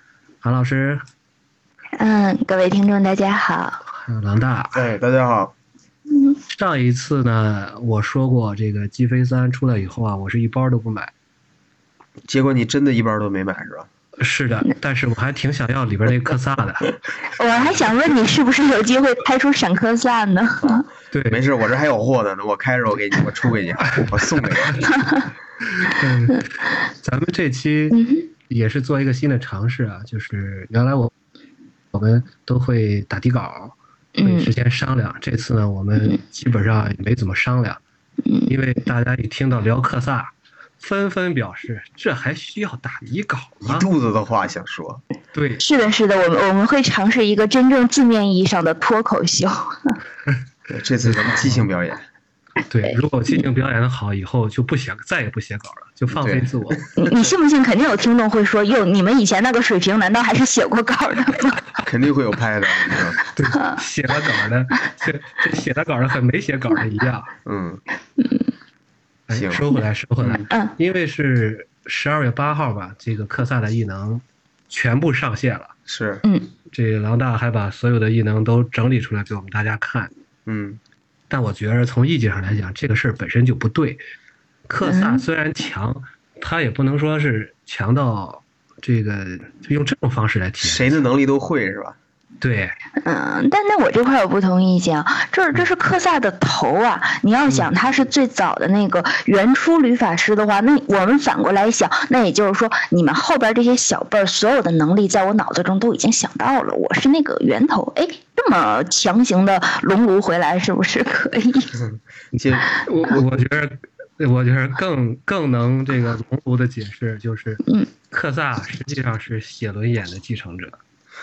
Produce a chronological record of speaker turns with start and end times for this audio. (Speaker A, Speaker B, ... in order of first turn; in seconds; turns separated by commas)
Speaker A: 0.4-1.1, Speaker B: 2.0-3.8, Speaker A: 3.9-4.9, Speaker C: 4.7-5.5, Speaker A: 6.5-11.1, Speaker C: 12.3-13.9, Speaker A: 14.2-17.0, Speaker B: 17.3-20.8, Speaker C: 20.6-24.9, Speaker A: 21.1-21.4, Speaker A: 23.9-24.8, Speaker A: 25.6-26.5, Speaker A: 27.0-31.1, Speaker B: 27.9-28.3, Speaker A: 31.9-37.8, Speaker B: 34.2-34.5, Speaker B: 38.3-38.5, Speaker A: 38.5-43.9, Speaker C: 43.6-45.0, Speaker A: 45.3-45.6, Speaker B: 45.6-50.0, Speaker C: 50.7-52.0, Speaker A: 51.0-51.6, Speaker A: 52.7-56.8, Speaker B: 52.9-53.4, Speaker C: 56.1-57.1, Speaker B: 57.0-61.6, Speaker C: 61.8-63.2, Speaker A: 63.4-67.3, Speaker B: 63.5-63.8, Speaker C: 67.4-67.8, Speaker B: 68.2-68.5, Speaker A: 69.3-75.8, Speaker C: 69.3-69.7, Speaker C: 70.2-70.4, Speaker C: 75.9-76.2, Speaker B: 76.2-76.5, Speaker A: 76.7-80.1, Speaker C: 80.5-80.8, Speaker A: 81.3-84.0, Speaker A: 84.7-90.9, Speaker B: 84.8-85.2, Speaker C: 90.6-92.0, Speaker A: 92.4-92.8, Speaker B: 93.0-111.8, Speaker C: 112.3-113.4, Speaker A: 112.3-120.8